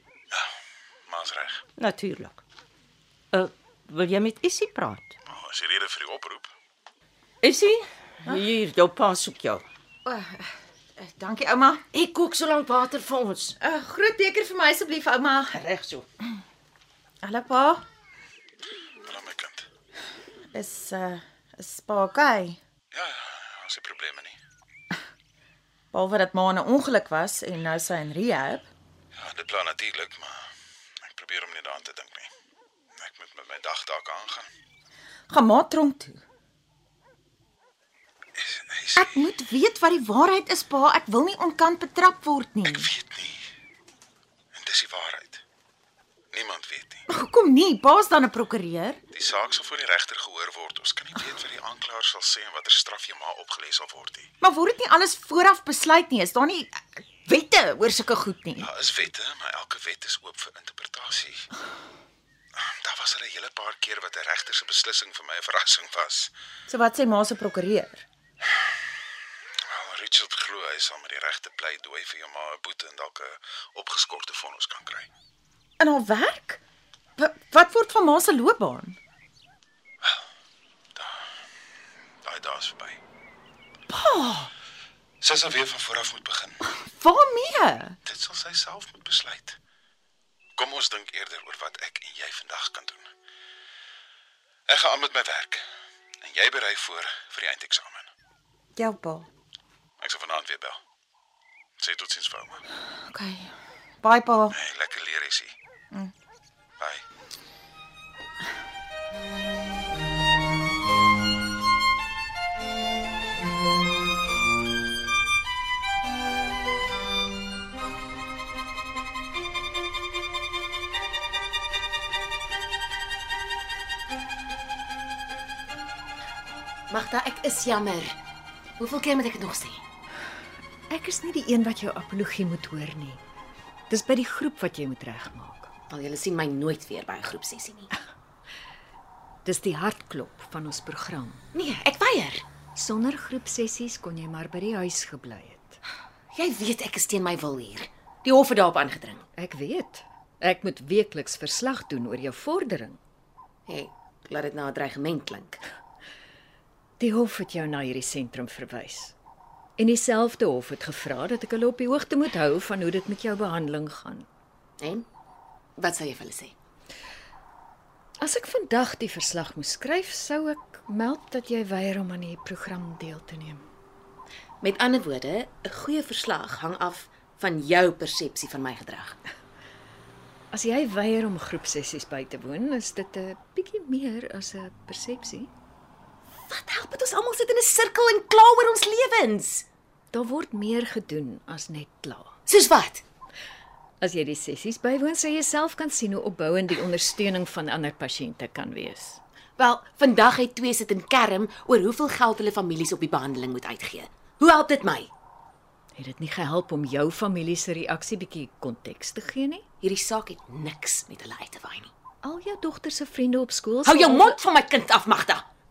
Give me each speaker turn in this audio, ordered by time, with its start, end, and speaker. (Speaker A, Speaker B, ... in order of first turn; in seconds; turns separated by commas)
Speaker A: 1.1-1.7, Speaker B: 1.8-2.4, Speaker B: 3.3-5.1, Speaker A: 5.3-6.5, Speaker B: 7.4-9.7, Speaker C: 10.1-10.5, Speaker C: 11.0-11.8, Speaker B: 11.9-13.6, Speaker C: 13.6-15.6, Speaker B: 15.5-16.1, Speaker C: 17.2-17.8, Speaker A: 19.0-19.7, Speaker C: 20.5-22.6, Speaker A: 22.9-24.4, Speaker C: 25.9-28.7, Speaker A: 29.2-30.5, Speaker A: 31.1-32.3, Speaker A: 33.0-34.5, Speaker C: 35.3-36.2, Speaker A: 38.4-39.2, Speaker C: 39.0-42.9, Speaker A: 42.6-43.4, Speaker A: 44.5-45.4, Speaker A: 46.3-47.0, Speaker C: 47.1-49.0, Speaker A: 49.1-54.3, Speaker C: 54.4-58.7, Speaker A: 58.6-61.5, Speaker A: 62.6-66.3, Speaker C: 66.7-68.0, Speaker A: 69.7-75.1, Speaker C: 75.8-76.6, Speaker C: 77.2-79.0, Speaker A: 81.0-81.2, Speaker A: 82.2-83.0, Speaker C: 84.0-84.5, Speaker A: 85.2-86.7, Speaker C: 86.8-88.0, Speaker A: 88.0-89.6, Speaker A: 90.6-93.1, Speaker A: 94.7-95.6, Speaker A: 96.2-98.1, Speaker C: 98.8-99.3, Speaker A: 100.0-100.8, Speaker A: 101.8-102.6, Speaker C: 103.0-103.5, Speaker C: 104.0-104.5, Speaker A: 104.5-105.5, Speaker D: 126.9-128.2, Speaker D: 128.8-129.8, Speaker E: 130.9-133.2, Speaker E: 133.9-135.7, Speaker D: 135.9-137.9, Speaker E: 139.4-141.4, Speaker D: 141.5-142.5, Speaker E: 142.8-145.8, Speaker D: 146.3-149.2, Speaker E: 149.4-153.0, Speaker D: 153.7-155.6, Speaker E: 157.0-159.2, Speaker E: 159.8-164.3, Speaker D: 164.8-165.1, Speaker D: 165.8-166.6, Speaker E: 168.2-173.6, Speaker D: 174.6-179.2, Speaker E: 180.5-185.5, Speaker D: 186.5-189.7, Speaker E: 190.1-192.4, Speaker D: 192.5-193.0, Speaker E: 194.0-199.2, Speaker D: 199.6-205.1, Speaker E: 206.0-209.6, Speaker D: 209.8-211.9, Speaker E: 212.2-214.4, Speaker D: 213.8-215.4